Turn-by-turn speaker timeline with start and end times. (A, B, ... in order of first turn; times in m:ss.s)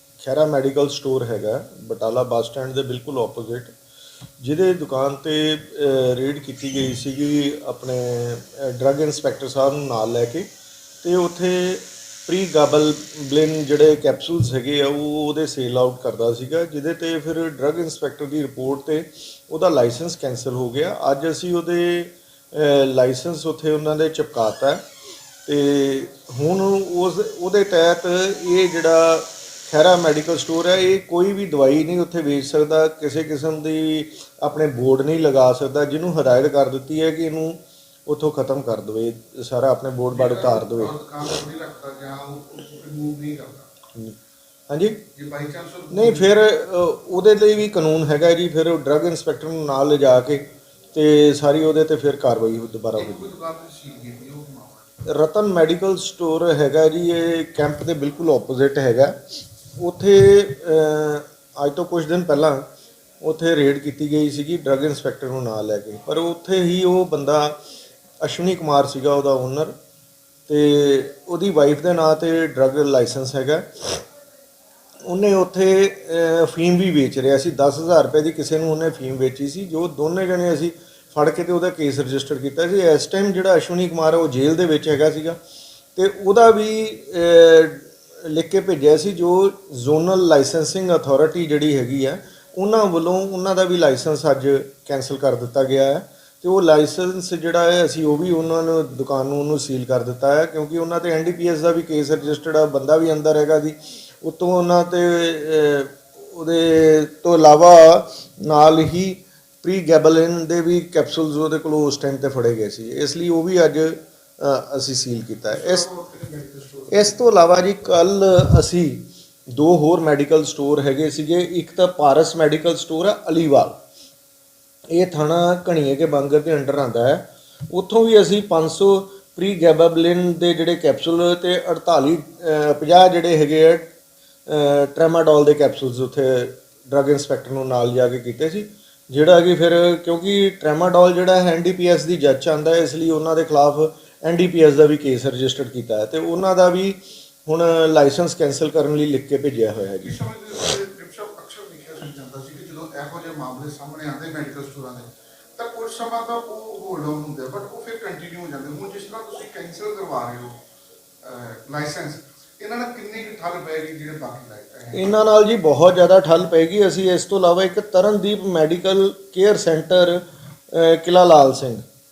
0:00.2-0:03.7 A
0:04.4-0:10.5 A
0:11.0-0:24.8 A
0:25.5-0:40.9 A
0:40.1-0:43.7 B
0:44.7-0:45.0 A
0:45.1-0:46.3 B
0:45.9-0:53.3 A
0:53.0-0:54.9 B
0:55.1-0:59.2 A
0:59.8-1:02.7 A
1:03.2-1:07.6 A
1:08.2-1:09.8 A
1:10.5-1:14.0 A
1:15.1-1:25.4 A
1:26.0-1:55.9 A
1:55.5-1:57.2 B
1:56.9-2:03.8 A
2:04.9-2:13.9 A
2:14.5-2:30.1 A
2:30.0-2:40.6 B
2:41.2-2:45.1 B
2:44.9-2:51.8 A